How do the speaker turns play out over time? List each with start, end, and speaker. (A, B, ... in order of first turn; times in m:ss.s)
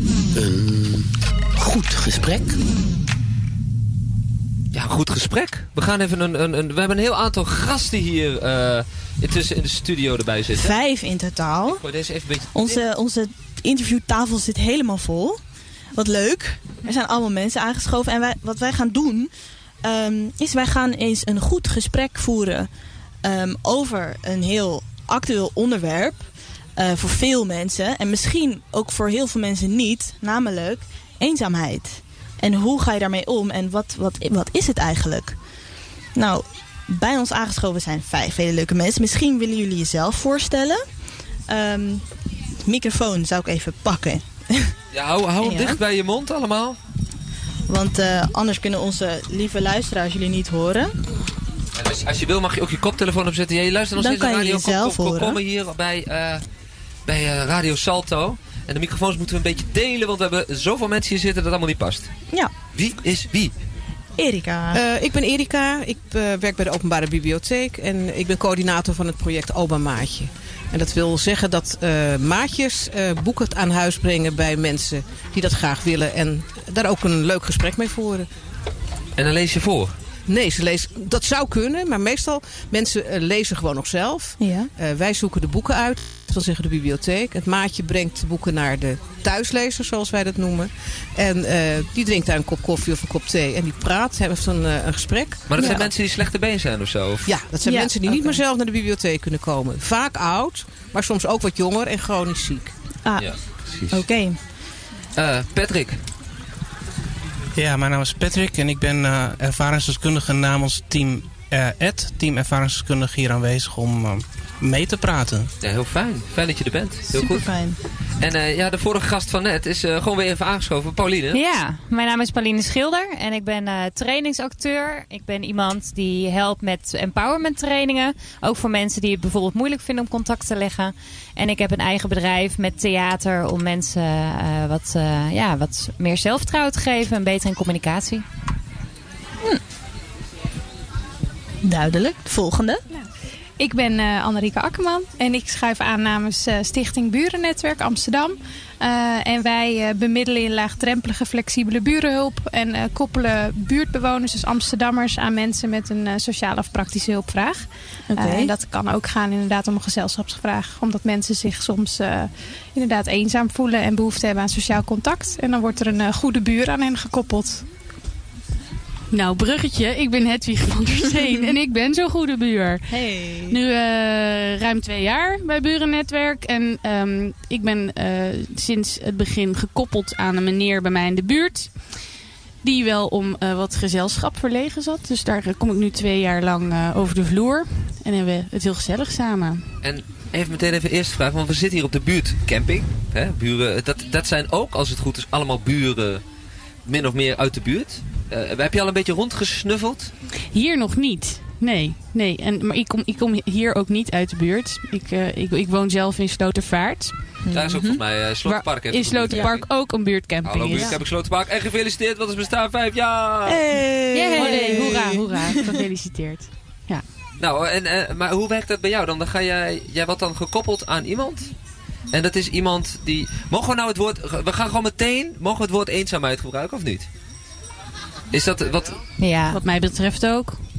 0:00.3-0:02.6 A
0:04.7-0:10.8 B
0:10.5-0:11.8 C
0:11.7-0:12.8 B
0:12.5-0:15.4 C
0:15.9-0:19.3 C
0:19.8-0:22.7 C
0:23.2-0:35.4 C
0:36.1-0:40.8 C
0:41.5-0:42.1 C
0:42.6-0:44.7 C
0:44.9-0:46.8 B
0:45.4-0:45.8 C
0:47.7-0:50.9 C
0:51.7-0:56.4 B
0:54.0-0:55.4 C
0:57.0-1:02.1 B
1:02.7-1:03.5 B
1:04.2-1:04.8 C
1:04.7-1:18.3 D
1:19.2-1:20.0 B
1:20.3-1:35.8 D
1:24.4-1:24.7 C
1:35.5-1:37.3 B
1:35.6-1:35.8 C
1:37.2-1:42.7 D
1:37.6-1:38.4 C
1:43.0-1:44.4 C
1:43.2-1:44.0 B
1:45.2-1:46.0 B
1:47.5-1:55.5 E
1:55.6-1:57.5 B
1:57.1-1:57.8 C
1:58.2-2:01.4 B
2:01.3-2:18.2 F
2:21.6-2:22.8 C
2:23.6-2:47.7 G
2:38.1-2:38.5 C
2:49.1-3:02.1 H
2:52.9-2:53.6 C
3:02.6-3:09.7 H
3:09.8-3:16.2 B
3:16.8-3:20.1 B
3:20.5-3:27.4 H
3:27.4-3:28.0 C
3:27.5-3:29.9 B
3:28.4-3:31.0 H
3:30.4-3:33.6 B
3:33.4-3:35.7 C
3:34.1-3:37.0 H
3:37.4-3:41.5 B
3:42.1-3:47.1 B
3:48.3-3:49.0 B
3:49.2-3:49.6 F
3:49.5-3:50.6 H